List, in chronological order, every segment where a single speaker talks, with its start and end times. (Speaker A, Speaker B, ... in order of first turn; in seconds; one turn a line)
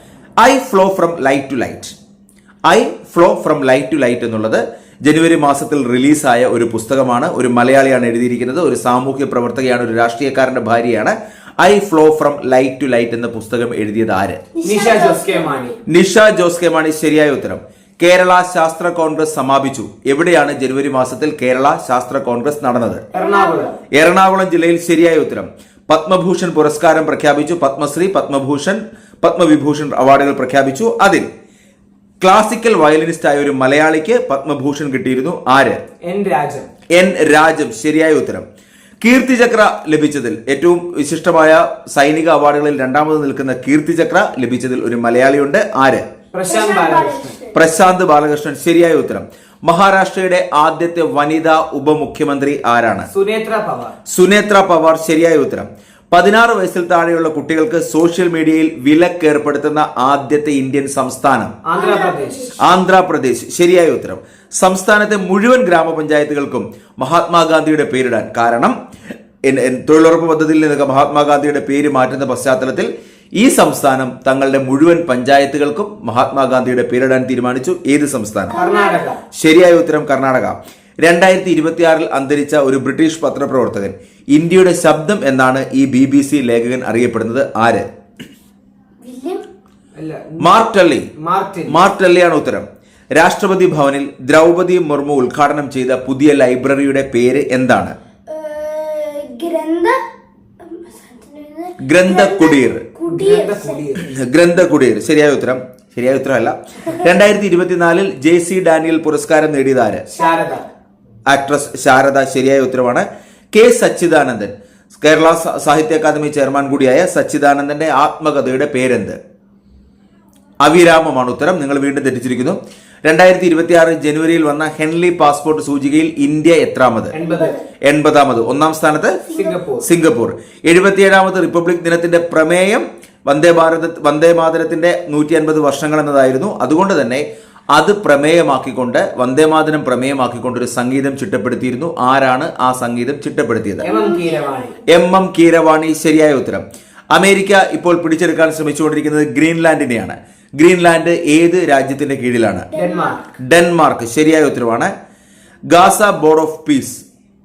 Speaker A: 0.4-1.9
Speaker A: 2.7-14.4
Speaker B: 14.5-15.7
Speaker C: 14.6-15.8
Speaker A: 15.9-23.0
Speaker B: 23.1-23.8
Speaker C: 23.1-23.7
Speaker A: 23.9-31.3
Speaker A: 32.2-35.8
Speaker C: 36.0-36.7
Speaker A: 36.9-38.4
Speaker A: 39.0-46.0
Speaker C: 46.3-47.4
Speaker B: 46.5-47.6
Speaker A: 47.5-53.1
Speaker C: 53.1-53.9
Speaker A: 54.1-61.6
Speaker C: 61.6-62.5
Speaker B: 61.7-62.8
Speaker A: 62.6-68.8
Speaker A: 69.4-78.6
Speaker B: 78.5-79.2
Speaker C: 78.5-79.2
Speaker A: 79.3-87.8
Speaker B: 89.0-89.4
Speaker C: 89.9-90.5
Speaker A: 90.4-91.1
Speaker C: 91.2-91.8
Speaker A: 91.7-98.0
Speaker B: 98.3-100.0
Speaker B: 100.6-103.8
Speaker A: 101.8-102.8
Speaker C: 103.1-104.1
Speaker A: 104.1-110.1
Speaker C: 110.1-110.6
Speaker B: 110.2-110.6
Speaker A: 111.3-119.2
Speaker A: 120.6-127.1
Speaker C: 127.1-127.5
Speaker B: 127.2-127.7
Speaker A: 127.8-129.2
Speaker B: 129.3-129.6
Speaker C: 129.3-129.9
Speaker A: 129.8-143.9
Speaker B: 143.8-144.8
Speaker C: 143.8-144.7
Speaker A: 144.9-152.7
Speaker B: 152.7-153.2
Speaker C: 152.7-153.2
Speaker A: 153.4-154.9
Speaker A: 155.7-157.0